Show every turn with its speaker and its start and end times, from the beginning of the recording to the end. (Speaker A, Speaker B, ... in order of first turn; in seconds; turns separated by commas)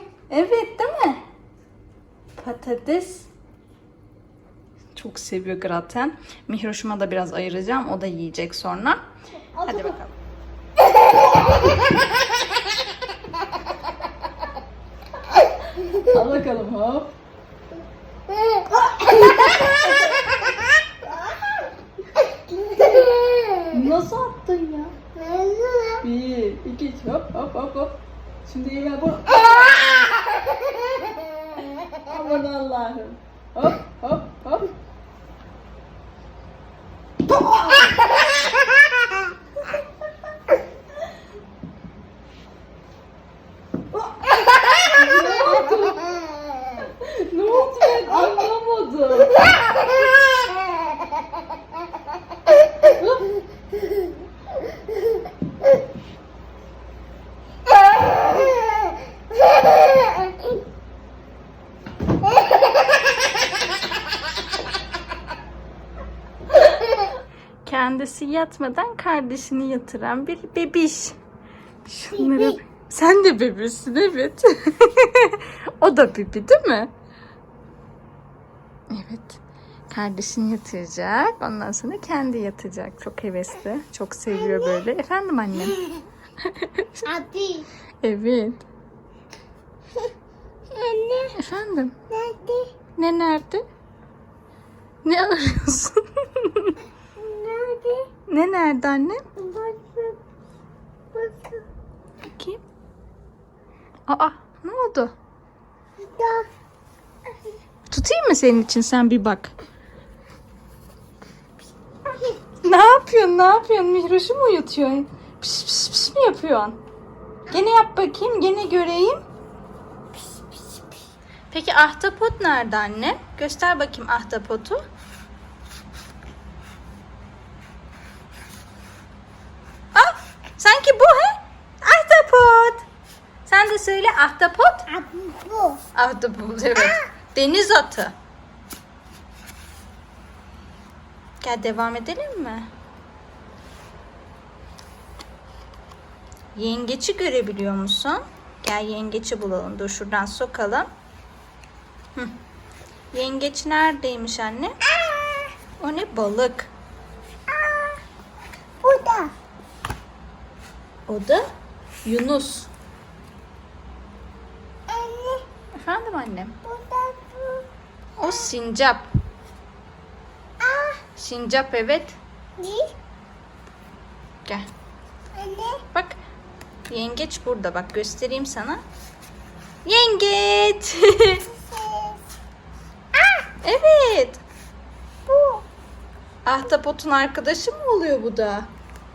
Speaker A: 0.3-1.2, Speaker A: 2.4-3.3, Speaker A: 5.0-9.0, Speaker A: 9.6-10.1, Speaker A: 15.7-17.1, Speaker A: 18.9-20.2, Speaker B: 22.8-23.6, Speaker A: 23.6-24.9, Speaker B: 25.2-25.9, Speaker A: 26.0-30.5, Speaker A: 31.9-34.7, Speaker A: 44.1-46.2, Speaker A: 46.8-49.5, Speaker A: 53.0-53.3, Speaker A: 67.7-71.2, Speaker A: 71.8-76.9, Speaker A: 78.9-87.1, Speaker B: 87.1-87.7, Speaker A: 88.0-88.6, Speaker B: 90.7-91.3, Speaker A: 91.3-92.0, Speaker B: 92.1-92.7, Speaker A: 93.0-93.6, Speaker A: 95.0-96.8, Speaker B: 97.2-98.1, Speaker A: 98.3-99.2, Speaker B: 99.4-100.2, Speaker B: 101.1-101.7, Speaker A: 102.3-102.6, Speaker A: 104.1-105.1, Speaker B: 106.0-106.5, Speaker A: 107.9-109.5, Speaker B: 112.1-112.4, Speaker A: 112.6-116.8, Speaker A: 117.5-119.2, Speaker B: 120.2-120.8, Speaker A: 121.5-124.8, Speaker A: 129.9-132.9, Speaker A: 133.5-135.0, Speaker B: 134.9-135.8, Speaker A: 135.9-138.2, Speaker A: 141.4-142.7, Speaker A: 146.6-150.9, Speaker A: 153.1-154.8, Speaker A: 155.8-156.7, Speaker B: 157.5-158.0, Speaker B: 158.8-159.3, Speaker A: 161.1-161.4, Speaker A: 162.1-162.7, Speaker B: 164.9-165.5, Speaker A: 165.8-166.6, Speaker B: 166.7-167.7, Speaker A: 168.2-169.1, Speaker B: 170.6-171.0, Speaker A: 171.2-172.2, Speaker B: 172.6-172.9, Speaker B: 175.3-175.8, Speaker A: 176.9-178.8, Speaker A: 179.8-181.5, Speaker B: 181.6-182.2, Speaker B: 183.2-183.5, Speaker A: 183.6-184.4, Speaker B: 185.3-185.7, Speaker A: 186.5-188.7